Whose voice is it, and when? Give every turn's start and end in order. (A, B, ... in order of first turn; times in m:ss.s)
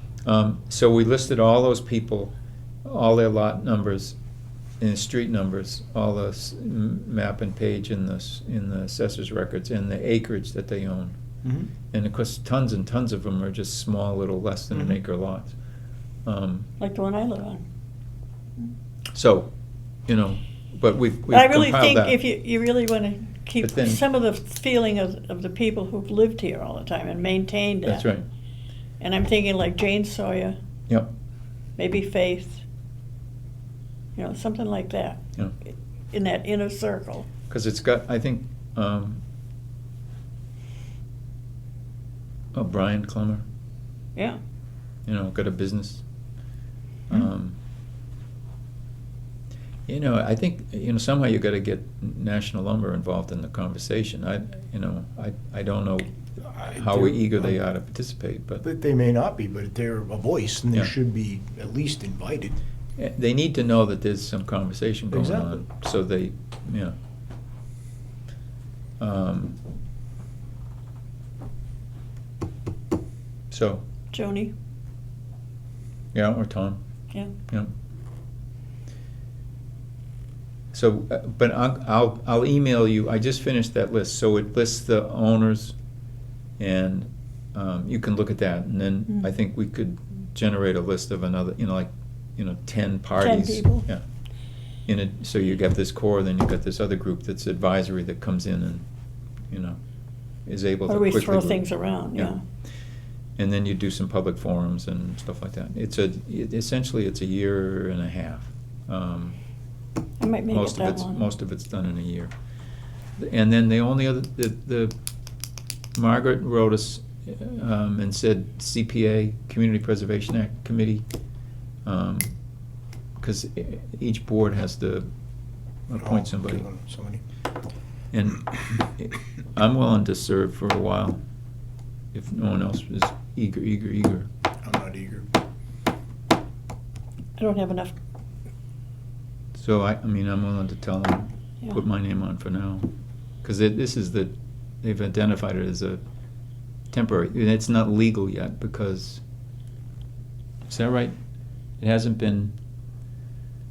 0:00.3-0:02.3 A
0:02.8-0:04.2 A
0:04.8-0:11.2 A
0:11.9-0:15.6 A
0:14.7-0:15.0 B
0:16.3-0:16.7 A
0:16.8-0:17.6 C
0:19.1-0:19.5 A
0:20.1-0:22.2 A
0:21.3-0:28.0 C
0:23.6-0:24.0 A
0:27.8-0:28.2 A
0:29.0-0:30.6 C
0:31.8-0:32.6 C
0:34.2-0:35.2 C
0:36.1-0:37.3 C
0:37.5-0:39.2 A
0:42.5-0:43.4 A
0:45.1-0:46.0 A
0:47.1-0:47.6 A
0:49.9-0:58.6 A
0:56.5-0:57.6 B
0:58.6-1:02.6 B
1:03.0-1:07.0 A
1:05.1-1:05.6 B
1:09.0-1:09.6 A
1:13.5-1:13.8 A
1:14.1-1:14.5 C
1:16.1-1:16.8 A
1:20.7-1:25.8 A
1:26.6-1:34.0 A
1:33.2-1:33.9 C
1:34.9-1:38.8 A
1:39.5-1:39.8 A
1:40.5-1:42.4 A
1:40.9-1:42.4 C
1:43.4-1:49.4 A
1:50.2-1:51.3 C
1:50.5-1:52.3 A
1:53.2-1:54.9 A
1:56.0-2:01.0 A
2:01.8-2:02.3 A
2:03.2-2:05.1 A
2:05.9-2:06.7 A
2:06.0-2:07.2 B
2:08.1-2:11.2 A
2:12.1-2:14.3 A
2:14.6-2:15.3 B
2:17.4-2:18.0 C
2:19.6-2:22.9 A
2:23.4-2:26.0 A
2:26.9-2:29.2 A
2:30.7-2:31.2 A
2:31.8-2:32.5 A